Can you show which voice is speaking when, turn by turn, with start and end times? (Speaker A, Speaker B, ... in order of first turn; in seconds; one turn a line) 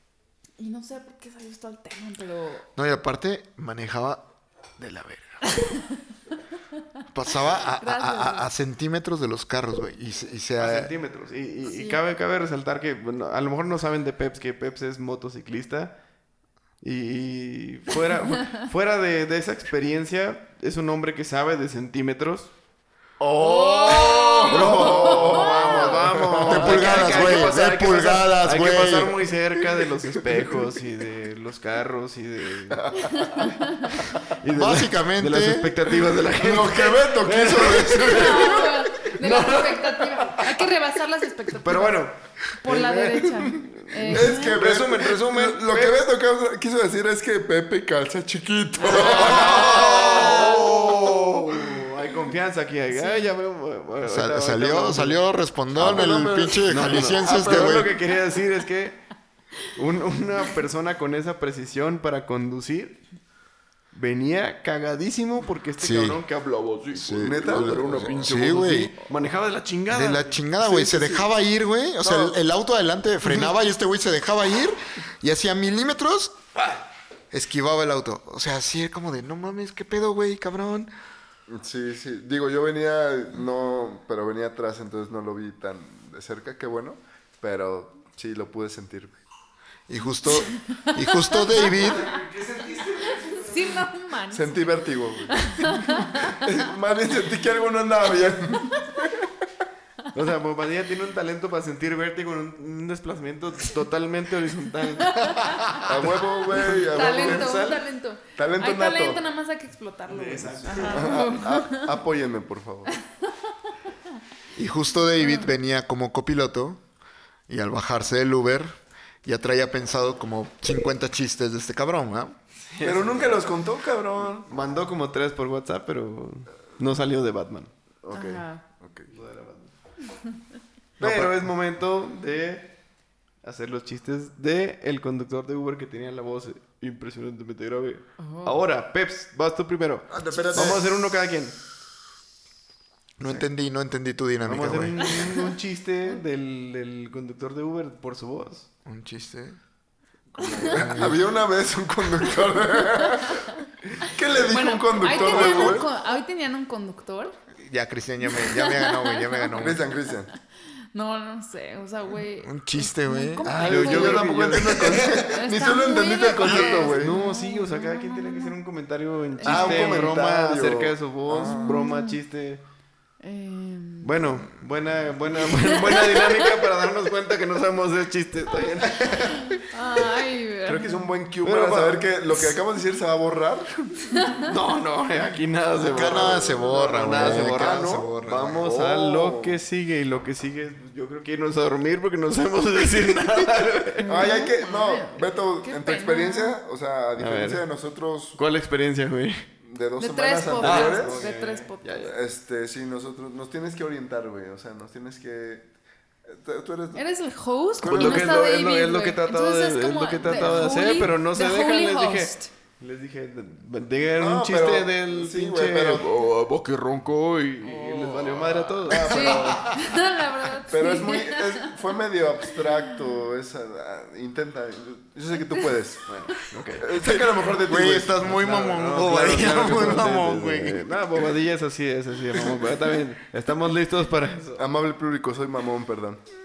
Speaker A: 0.6-2.7
Speaker B: 2.8-4.2
Speaker B: 4.8-5.3
Speaker A: 5.6-5.8
Speaker B: 7.1-10.9
Speaker A: 7.8-8.5
Speaker C: 10.6-15.9
Speaker A: 11.6-12.0
Speaker C: 16.8-22.5
Speaker D: 23.2-27.3
Speaker A: 23.4-26.0
Speaker C: 24.5-33.4
Speaker B: 26.4-29.2
Speaker D: 32.7-33.4
Speaker A: 33.0-34.0
Speaker C: 34.4-40.5
Speaker B: 34.5-35.9
Speaker D: 36.4-38.7
Speaker A: 38.0-42.0
Speaker C: 41.6-46.0
Speaker A: 42.6-44.6
Speaker D: 44.1-51.2
Speaker C: 48.8-55.2
Speaker B: 49.0-51.1
Speaker A: 52.9-53.3
Speaker B: 54.0-58.0
Speaker C: 55.7-59.0
Speaker C: 59.7-63.0
Speaker C: 63.9-70.4
Speaker B: 65.8-66.2
Speaker B: 66.9-68.9
Speaker D: 67.1-68.9
Speaker B: 69.9-76.3
Speaker D: 70.6-71.2
Speaker B: 77.3-80.9
Speaker D: 81.5-89.2
Speaker B: 89.9-92.1
Speaker A: 90.3-92.2
Speaker C: 91.5-93.8
Speaker A: 93.1-94.6
Speaker D: 94.3-99.3
Speaker A: 95.3-96.4
Speaker C: 100.1-107.8
Speaker A: 105.1-105.8
Speaker D: 105.8-107.7
Speaker A: 106.7-111.9
Speaker D: 108.3-109.2
Speaker C: 110.1-111.3
Speaker D: 110.8-112.9
Speaker A: 112.9-113.3
Speaker B: 114.5-116.8
Speaker A: 115.2-115.5
Speaker B: 117.5-122.3
Speaker C: 122.6-123.4
Speaker D: 122.8-124.5
Speaker C: 124.5-127.7
Speaker D: 128.0-129.1
Speaker A: 128.1-128.6
Speaker C: 129.1-129.7
Speaker C: 131.0-132.7
Speaker B: 131.0-131.3
Speaker C: 133.4-141.6
Speaker A: 138.2-138.6
Speaker B: 140.1-140.8
Speaker D: 140.2-140.8
Speaker B: 143.2-145.0
Speaker C: 144.4-148.7
Speaker A: 145.0-145.5
Speaker B: 148.8-149.6
Speaker D: 150.3-155.9
Speaker A: 150.4-150.7
Speaker B: 150.7-151.2
Speaker A: 154.4-157.3
Speaker B: 155.1-155.8
Speaker B: 157.6-159.8
Speaker A: 158.3-159.6
Speaker D: 159.5-160.3
Speaker A: 160.9-168.5
Speaker B: 162.4-163.9
Speaker D: 163.4-167.1
Speaker C: 163.6-165.0
Speaker B: 164.5-165.3
Speaker B: 166.4-166.9
Speaker C: 166.9-172.6
Speaker A: 169.4-170.1
Speaker D: 169.4-171.8
Speaker A: 171.4-172.2
Speaker A: 173.2-174.2
Speaker C: 174.0-179.6
Speaker A: 175.4-176.6
Speaker B: 178.9-179.3
Speaker A: 179.6-181.1
Speaker D: 180.6-184.2
Speaker C: 181.4-182.1
Speaker A: 184.1-184.5
Speaker C: 184.4-194.3
Speaker D: 185.8-189.6
Speaker B: 185.9-188.6
Speaker A: 194.0-196.6
Speaker D: 194.1-198.4
Speaker C: 197.2-197.7
Speaker C: 198.3-199.4
Speaker D: 199.6-201.2
Speaker A: 200.0-202.1
Speaker C: 200.6-202.1
Speaker D: 202.0-205.7
Speaker D: 206.3-207.0
Speaker A: 206.9-212.5
Speaker D: 207.8-208.3
Speaker C: 207.8-219.6
Speaker D: 210.3-210.6
Speaker D: 214.2-216.1
Speaker D: 218.8-219.7
Speaker A: 219.0-221.7
Speaker D: 220.7-226.1
Speaker C: 226.1-227.0
Speaker D: 226.8-228.3
Speaker B: 227.0-231.0
Speaker C: 228.2-234.7
Speaker D: 234.6-236.2